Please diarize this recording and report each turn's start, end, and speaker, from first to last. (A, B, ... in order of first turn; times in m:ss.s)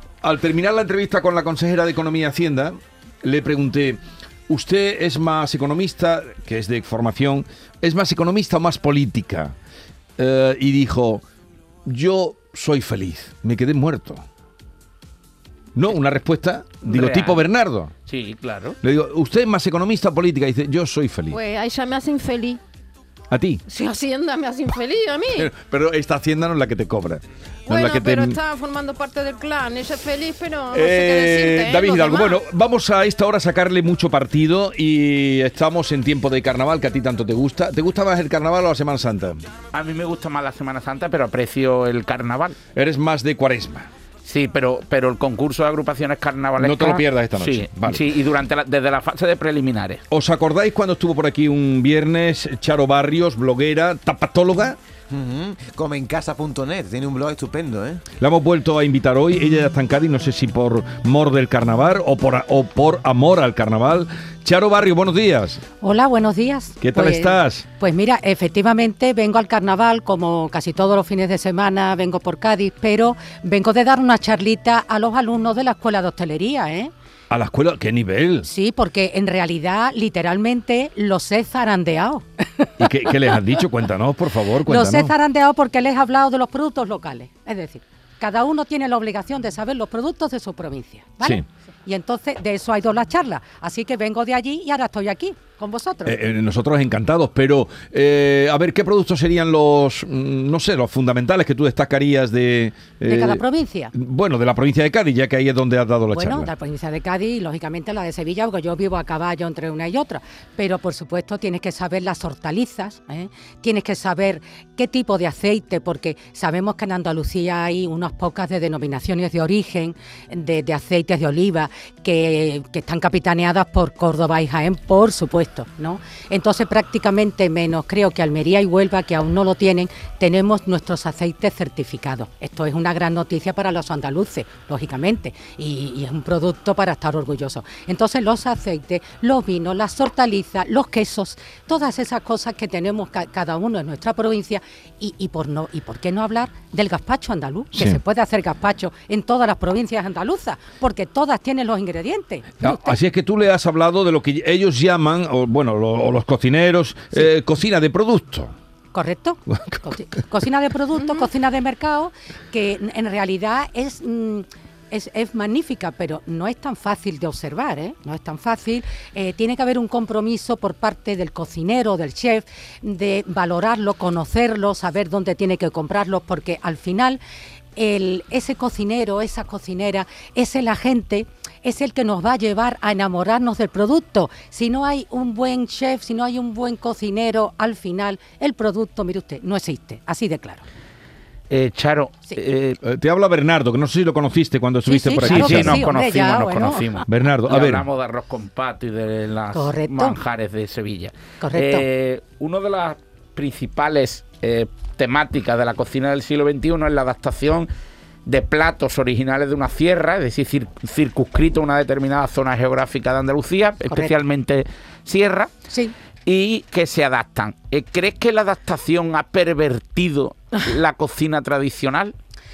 0:00.2-0:09.5 A
0:10.2-0:11.2 A
0:11.9-0:14.2 A
0:15.8-0:17.9 A
0:16.8-0:17.4 B
0:18.1-0:18.8 B
0:18.8-0:21.4 A
0:21.3-0:22.6 C
0:23.3-0:23.6 A
0:23.7-0:25.5 C
0:25.3-0:28.4 A
0:27.7-0:32.4 C
0:30.7-0:39.4 A
0:39.7-0:42.6 B
0:42.7-0:43.9 A
0:44.2-0:50.0 B
0:46.6-0:48.1 A
0:50.1-0:54.8 A
0:55.1-0:58.0 D
0:58.2-1:05.6 A
1:05.8-1:16.9 E
1:06.8-1:07.6 A
1:17.3-1:18.5 A
1:18.4-1:23.0 E
1:22.8-1:25.1 A
1:24.7-1:36.2 E
1:36.1-1:43.4 A
1:43.1-1:43.9 E
1:43.9-1:46.5 A
1:46.1-2:33.0 E
2:27.7-2:28.0 A
2:32.6-2:38.5 A
2:38.9-2:57.2 E
2:39.5-2:39.9 A
2:57.8-3:10.6 E
3:11.5-3:12.8 B
3:12.8-3:15.8 A
3:14.9-3:17.0 E
3:15.2-3:27.7 B
3:17.1-3:17.9 A
3:19.5-3:20.2 E
3:21.4-3:21.8 E
3:28.3-3:35.5 B
3:36.3-3:42.1 B